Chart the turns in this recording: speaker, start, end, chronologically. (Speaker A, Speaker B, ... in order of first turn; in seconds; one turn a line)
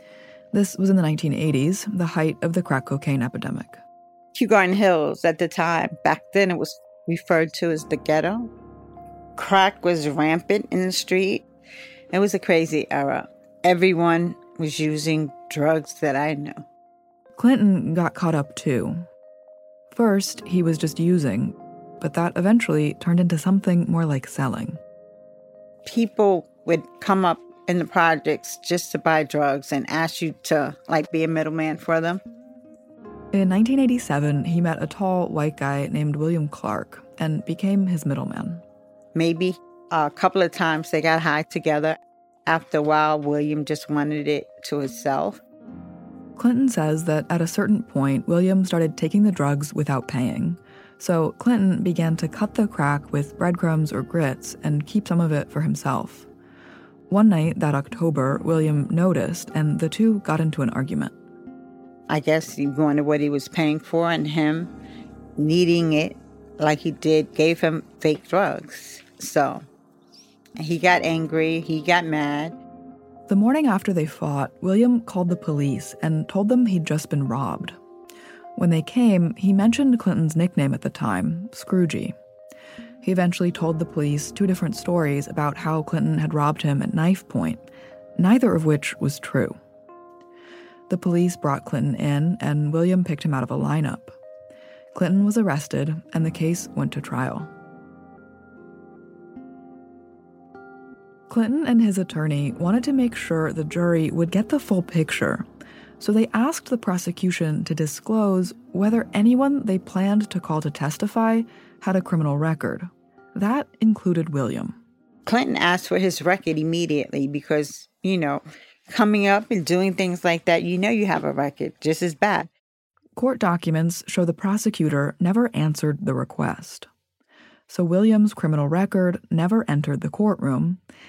Speaker A: 0.5-3.8
Speaker B: 4.3-8.5
Speaker B: 9.4-11.4
Speaker B: 12.1-16.6
Speaker A: 17.4-19.0
Speaker A: 19.9-24.8
Speaker B: 25.8-32.2
Speaker A: 33.3-38.6
Speaker B: 39.1-45.4
Speaker A: 46.4-56.3
Speaker A: 57.1-61.1
Speaker B: 62.1-64.7
Speaker B: 65.4-69.6
Speaker B: 70.6-72.5
Speaker A: 73.3-77.8
Speaker A: 78.5-82.1
Speaker A: 83.0-87.6
Speaker A: 88.2-89.6
Speaker A: 90.9-94.1
Speaker A: 94.9-97.5
Speaker A: 101.3-105.5
Speaker A: 106.0-114.8
Speaker B: 115.2-122.5
Speaker A: 123.2-126.9
Speaker A: 127.7-130.8